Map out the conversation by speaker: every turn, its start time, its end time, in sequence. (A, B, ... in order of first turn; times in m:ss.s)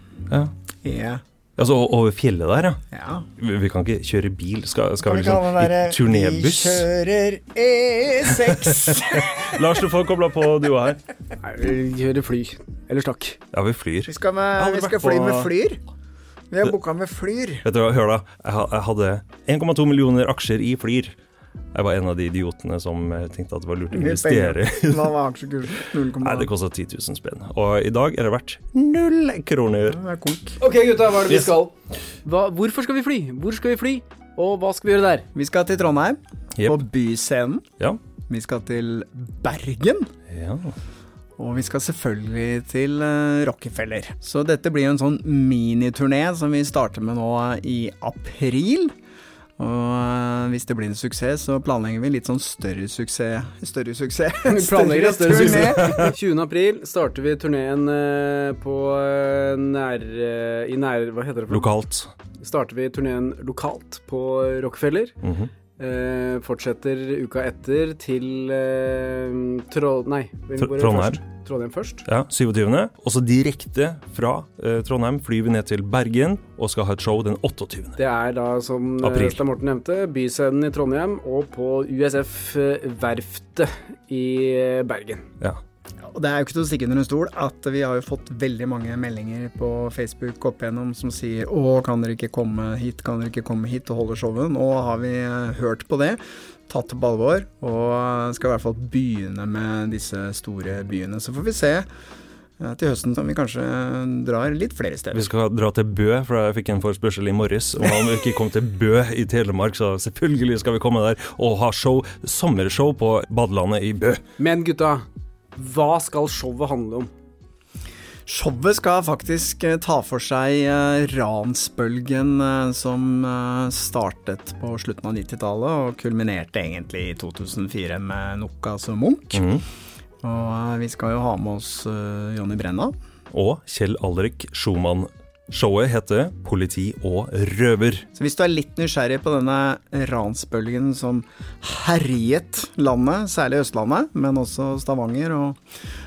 0:00.8-0:01.2 A
0:01.6-0:02.8 B
0:02.9-0:03.3 A
0:03.4-0:06.9 B
0:05.0-0:09.6 A
0:08.2-0:11.0 B
0:11.4-0:13.4 C
0:13.5-0:15.5 B
0:14.0-0:15.8 A
0:16.5-0:17.6 A
0:17.6-0:21.1 B
0:21.7-0:25.1 B
0:23.9-0:26.5 A
0:25.8-0:30.0 B
0:29.9-0:30.6 A
0:30.6-0:31.7 C
0:32.2-0:35.2 C
0:35.3-0:37.6 A
0:38.3-0:40.1 A
0:40.3-0:40.7 B
0:41.4-0:48.9 A
0:49.6-0:56.1 A
0:54.5-1:01.7 C
0:55.6-0:56.0 B
1:01.5-1:02.1 B
1:02.4-1:05.1 C
1:05.2-1:05.5 B
1:05.8-1:12.0 C
1:10.6-1:11.2 B
1:12.0-1:18.0 B
1:18.0-1:25.2 C
1:19.0-1:19.4 B
1:26.1-1:41.8 A
1:42.6-1:45.3 A
1:45.1-1:54.2 B
1:54.4-1:55.0 C
1:55.6-1:57.1 C
1:58.3-2:09.5 A
2:09.3-2:09.6 B
2:10.2-2:12.9 A
2:13.3-2:18.0 B
2:18.1-2:25.6 A